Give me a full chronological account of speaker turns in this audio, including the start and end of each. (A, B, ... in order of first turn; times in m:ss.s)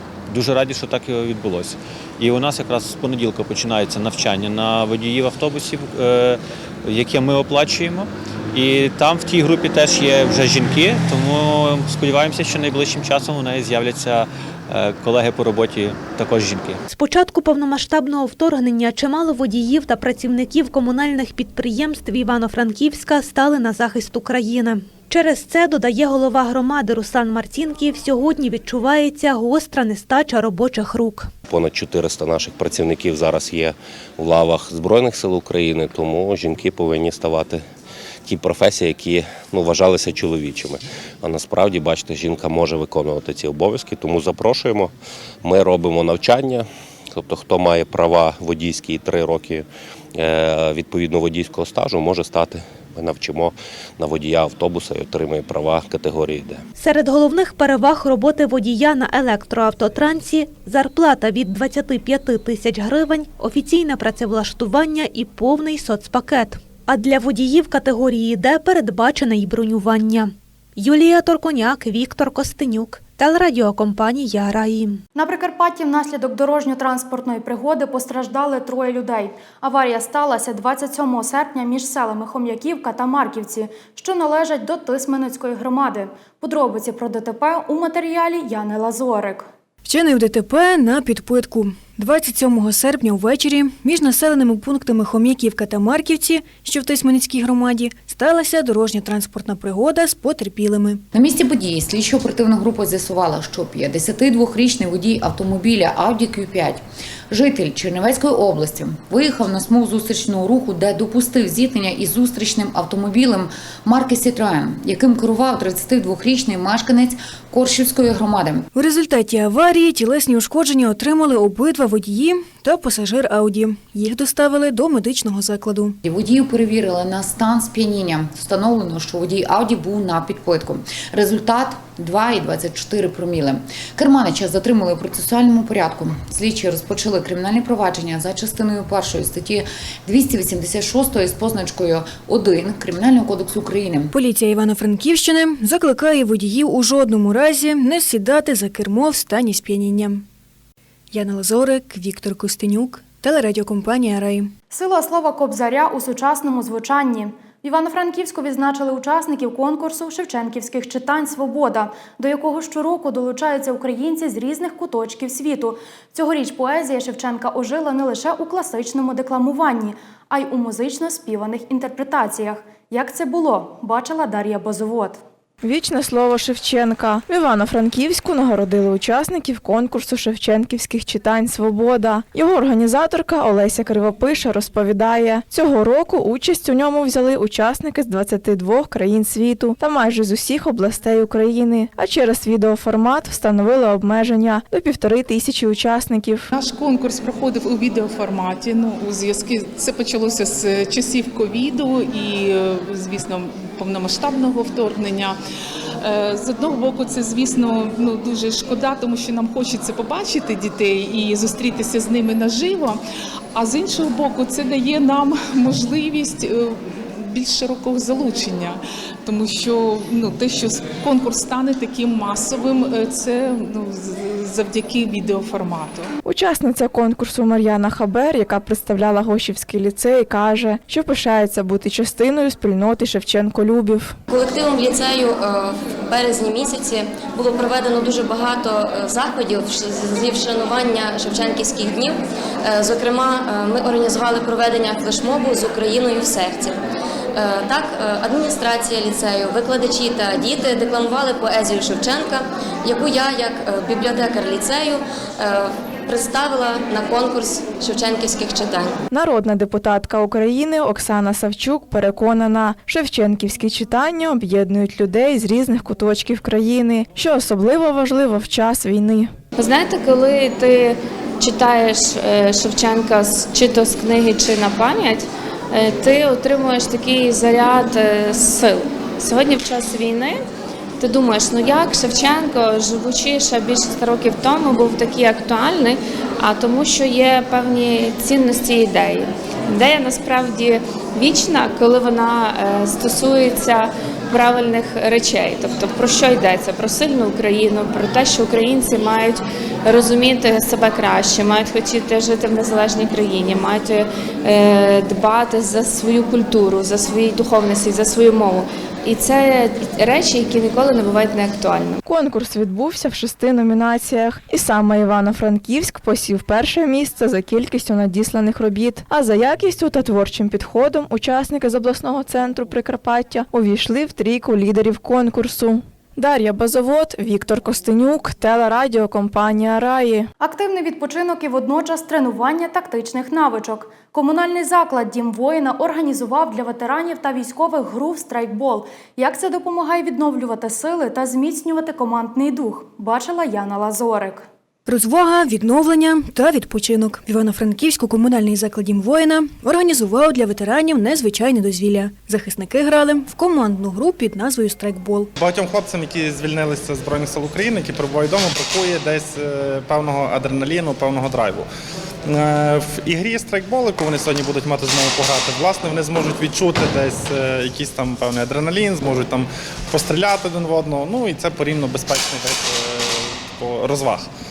0:00.3-0:16.8 A
0:16.9-0:31.3 B
0:31.5-0:37.6 C
0:38.2-0:44.9 C
0:45.4-0:56.6 C
0:56.8-1:15.0 B
1:15.2-1:29.5 D
1:29.8-1:41.0 E
1:41.1-1:58.7 F
1:58.7-2:06.0 E
2:06.0-2:24.1 F
2:24.1-2:30.2 E
2:31.1-2:34.5 E
2:34.7-2:55.2 D
2:55.6-3:16.5 G
3:16.5-3:25.4 H
3:26.0-3:33.0 H
3:33.6-3:46.1 H
3:46.2-3:54.2 G
3:54.3-4:06.8 I
4:07.4-4:19.0 I
4:19.1-4:29.3 G
4:29.6-4:40.4 J
4:41.0-5:12.0 J
5:12.0-5:30.3 G
5:30.4-5:44.5 D
5:44.9-5:55.3 E
5:55.4-6:01.7 K
6:02.3-6:14.3 K